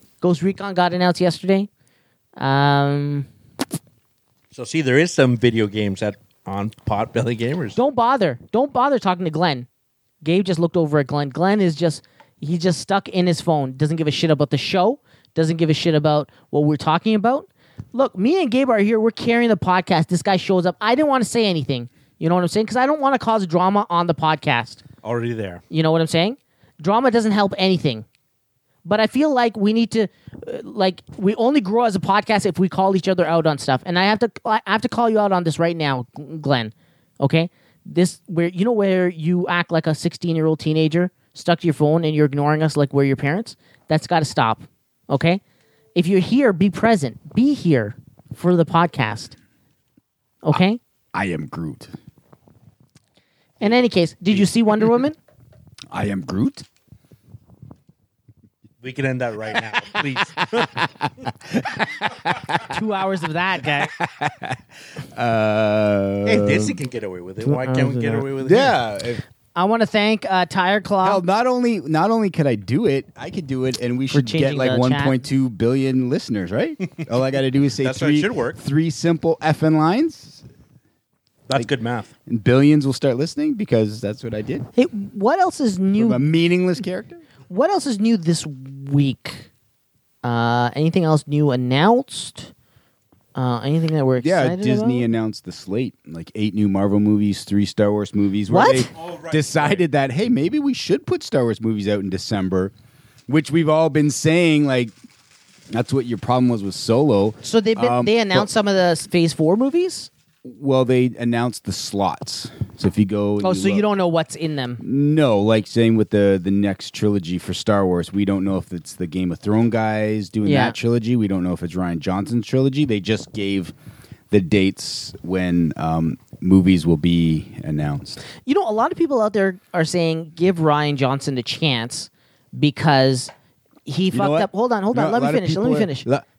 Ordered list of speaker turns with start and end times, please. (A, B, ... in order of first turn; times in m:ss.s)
0:00.2-0:01.7 A
0:02.4-0:03.3 A
0:04.5-0:07.8 B
0:07.8-0:09.7 A
0:10.2-0:24.8 A
0:25.0-0:25.6 B
0:25.7-0:28.1 A
0:28.8-0:45.4 A
0:46.0-0:49.4 A
0:50.4-0:50.8 A
0:51.1-0:51.9 C
0:53.6-0:55.2 A
0:55.9-0:56.6 C
0:58.8-1:00.8 B
1:00.4-1:02.8 C
1:02.6-1:03.9 A
1:03.8-1:06.8 C
1:06.2-1:08.8 B
1:07.4-1:08.3 A
1:08.4-1:09.2 C
1:09.6-1:11.2 A
1:11.0-1:20.4 C
1:14.1-1:15.2 A
1:17.8-1:18.6 B
1:21.5-1:22.1 B
1:22.3-1:24.7 C
1:24.8-1:26.2 A
1:26.0-1:27.2 C
1:27.5-1:29.5 A
1:30.2-1:32.5 A
1:33.4-1:35.1 A
1:34.2-1:42.7 C
1:38.5-1:38.9 A
1:39.0-1:39.8 B
1:43.3-1:44.9 C
1:45.7-1:48.5 C
1:47.4-1:50.1 A
1:50.4-1:53.9 C
1:53.4-1:54.8 A
1:54.8-2:03.7 C
2:00.4-2:00.8 A
2:04.3-2:08.2 C
2:08.4-2:13.3 A
2:13.9-2:16.1 A
2:14.1-2:16.2 C